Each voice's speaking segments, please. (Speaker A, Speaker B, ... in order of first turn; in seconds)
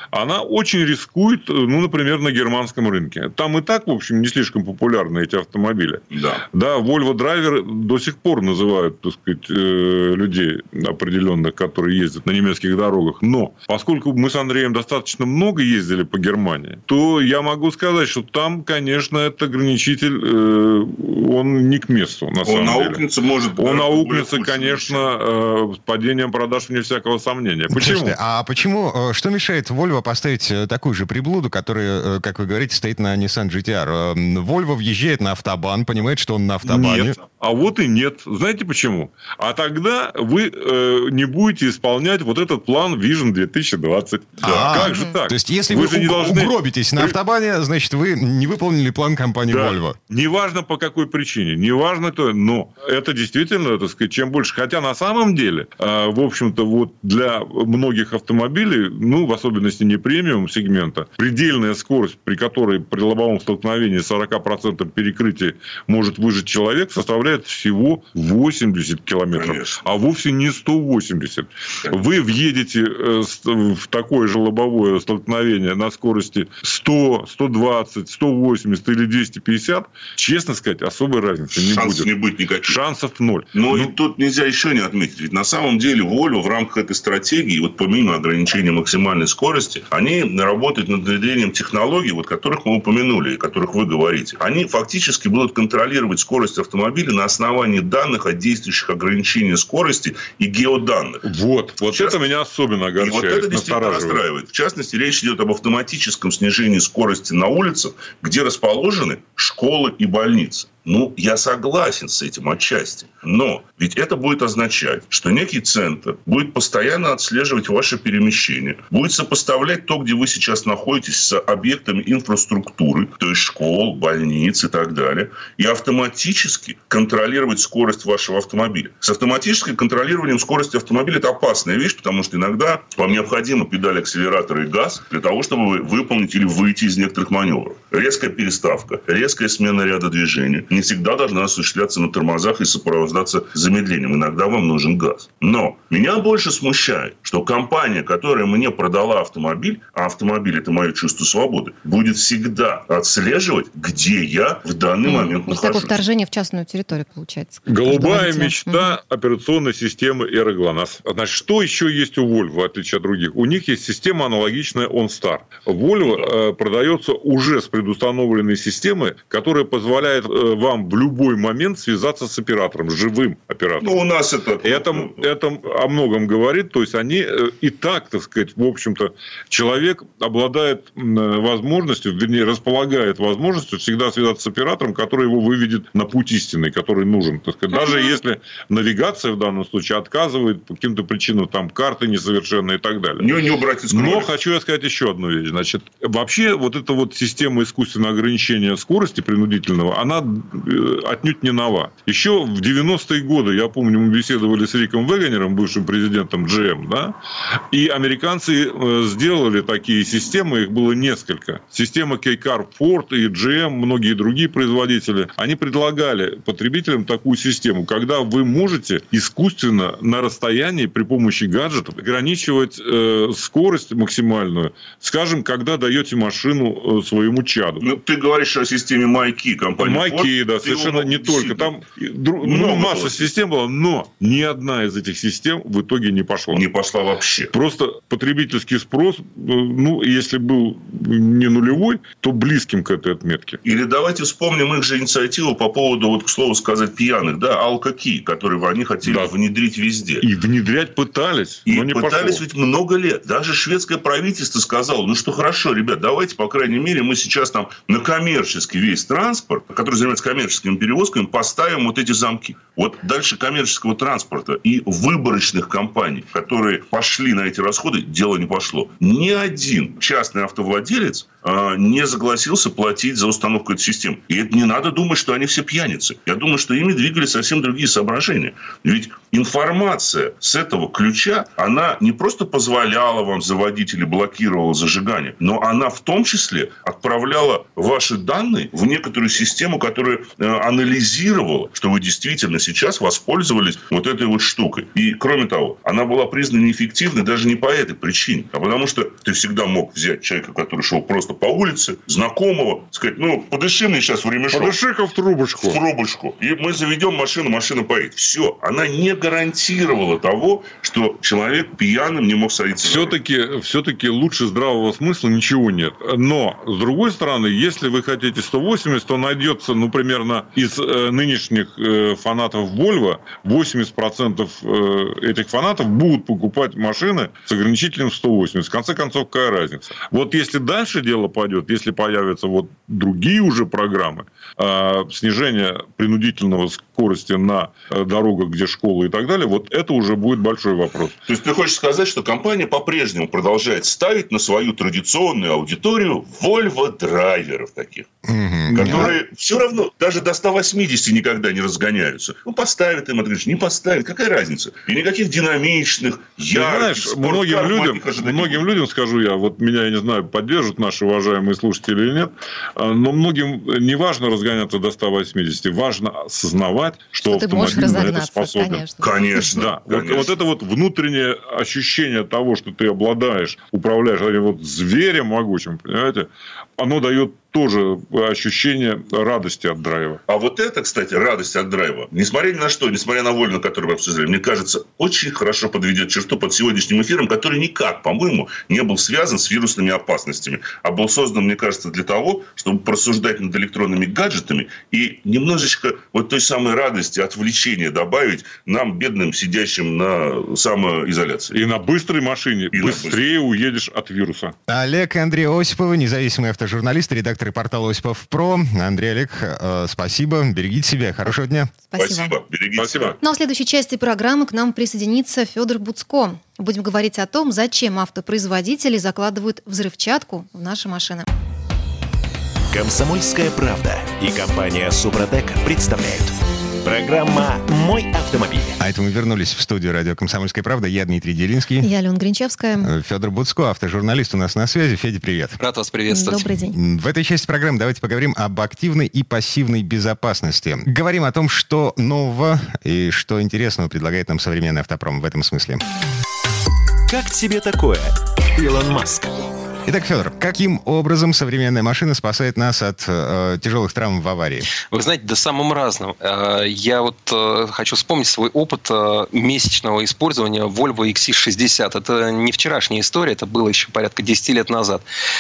Speaker A: 0.1-23.0, 23.6-28.1, 36.6-47.2, 49.5-82.1, 82.6-84.0, 101.2-104.2, 157.7-174.0, 174.6-207.2, 207.7-227.8, 229.8-236.6, 237.5-243.6, 249.0-249.3, 250.2-252.4, 304.5-305.8, 312.8-341.2, 348.7-349.2, 356.5-380.2, 401.5-404.5, 412.8-413.2
Speaker B: 6.1-6.4, 22.4-25.1, 44.4-44.8, 69.3-69.8, 81.5-82.8, 83.5-101.2, 101.9-102.2, 103.0-156.0, 166.0-166.3, 173.8-175.3, 193.2-194.3, 227.8-231.7, 232.4-233.3, 236.5-237.5, 243.6-250.2, 251.7-304.8, 305.6-313.1, 341.3-348.1, 348.7-358.6, 367.7-367.9, 369.0-370.4, 380.3-401.6, 402.7-403.2, 412.0-413.2
Speaker C: 27.7-37.2, 44.4-50.0, 348.3-349.1, 404.7-411.8, 428.8-431.9, 432.8-435.6, 436.7-445.8, 449.9-454.7
Speaker D: 44.9-45.1, 155.0-159.0, 367.2-369.4, 411.3-412.4, 413.2-421.3, 431.8-432.9, 436.1-436.8
Speaker E: 422.7-428.8, 447.1-449.5
Speaker F: 435.6-436.6, 454.8-465.0